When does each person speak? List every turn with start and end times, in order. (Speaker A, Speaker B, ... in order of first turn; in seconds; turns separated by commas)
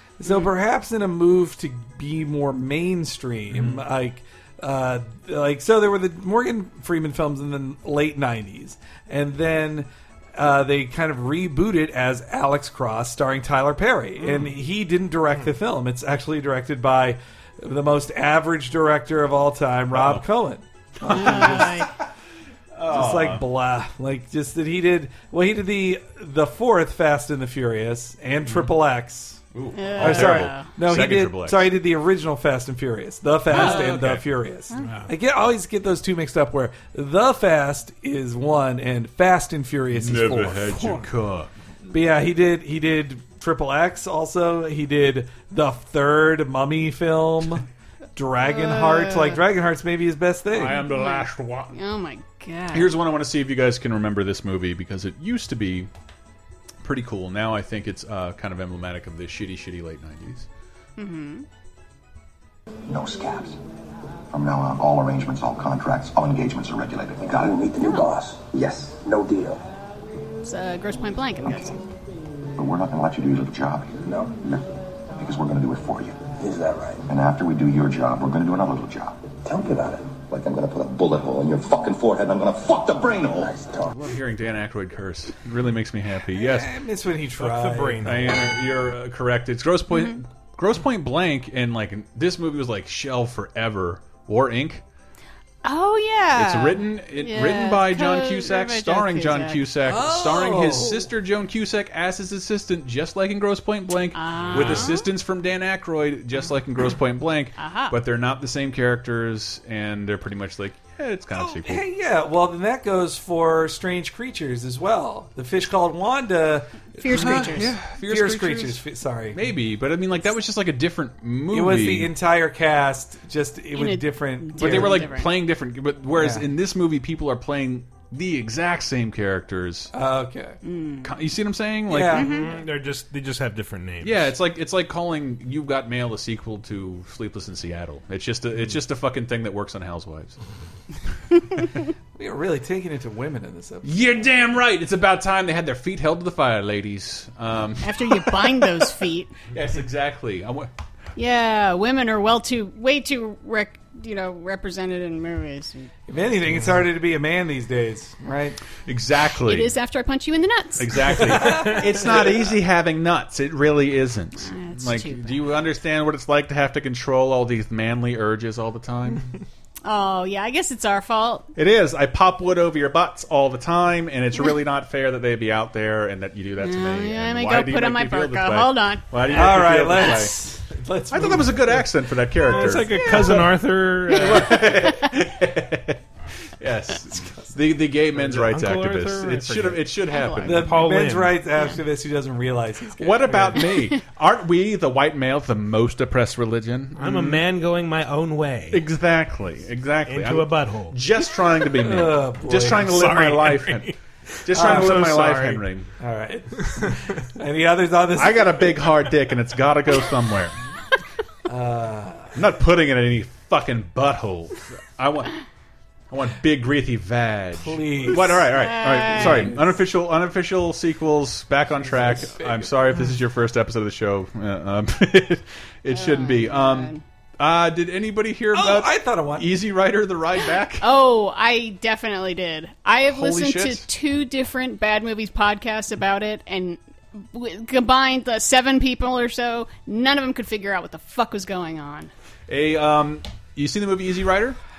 Speaker A: 0.2-21.9, Speaker B: 14.2-14.5, Speaker B: 19.9-20.2, Speaker B: 21.0-22.0, Speaker C: 21.1-21.9, Speaker B: 22.8-23.4, Speaker A: 22.9-29.4, Speaker B: 29.5-31.7, Speaker C: 29.7-30.7, Speaker A: 30.0-41.0, Speaker B: 33.5-34.2, Speaker D: 34.8-35.1, Speaker B: 39.9-41.5, Speaker A: 41.9-50.8, Speaker C: 48.4-49.4, Speaker B: 50.5-51.7, Speaker C: 50.8-52.9, Speaker B: 52.7-55.9, Speaker B: 56.8-60.5, Speaker C: 61.0-61.5, Speaker E: 62.9-63.6, Speaker E: 64.3-69.6, Speaker C: 67.8-68.1, Speaker C: 70.4-71.8, Speaker E: 72.5-74.6, Speaker E: 75.2-83.9, Speaker B: 83.9-86.7, Speaker A: 86.3-88.1, Speaker D: 87.4-88.4, Speaker B: 88.0-94.8, Speaker C: 89.9-90.2, Speaker C: 95.6-99.6, Speaker B: 96.3-111.8, Speaker A: 99.8-101.1, Speaker C: 104.1-105.1, Speaker A: 104.5-104.8, Speaker C: 107.6-107.9, Speaker A: 111.3-119.5, Speaker C: 117.0-117.7, Speaker B: 117.1-122.1, Speaker A: 121.5-125.1, Speaker C: 123.7-125.3, Speaker B: 124.6-129.9, Speaker A: 126.1-126.5, Speaker A: 129.9-130.6, Speaker C: 130.6-131.1, Speaker B: 131.0-132.2, Speaker A: 131.9-132.3, Speaker D: 132.1-134.3, Speaker C: 132.1-132.6, Speaker B: 134.0-140.4, Speaker A: 142.2-143.9, Speaker B: 143.8-148.8, Speaker C: 147.8-149.3, Speaker B: 149.5-150.7, Speaker C: 151.2-155.9, Speaker A: 156.1-158.6, Speaker B: 158.8-159.7, Speaker C: 159.5-161.2, Speaker B: 160.8-169.3, Speaker C: 164.4-165.4, Speaker C: 169.8-171.5, Speaker B: 171.6-180.3, Speaker C: 176.6-179.9, Speaker A: 179.3-181.8, Speaker B: 181.1-183.5, Speaker D: 182.4-184.6, Speaker B: 184.1-186.0, Speaker B: 186.6-190.7, Speaker D: 188.1-189.8, Speaker C: 190.1-190.6, Speaker A: 190.4-193.6, Speaker D: 190.5-191.3, Speaker B: 193.0-197.4, Speaker D: 196.9-198.8, Speaker B: 198.7-203.9, Speaker D: 200.1-201.0, Speaker A: 201.8-202.9, Speaker D: 202.8-203.9, Speaker B: 204.4-205.9, Speaker D: 204.5-205.6, Speaker A: 204.5-205.0, Speaker A: 206.0-208.6, Speaker B: 208.2-210.6, Speaker A: 211.4-212.4, Speaker B: 212.3-215.3, Speaker B: 216.1-230.9, Speaker A: 217.6-218.5, Speaker C: 218.5-219.6, Speaker A: 219.1-219.7, Speaker A: 221.8-222.7, Speaker C: 225.9-227.0, Speaker A: 228.5-229.5, Speaker C: 230.8-242.1, Speaker B: 233.0-233.8, Speaker B: 242.5-244.6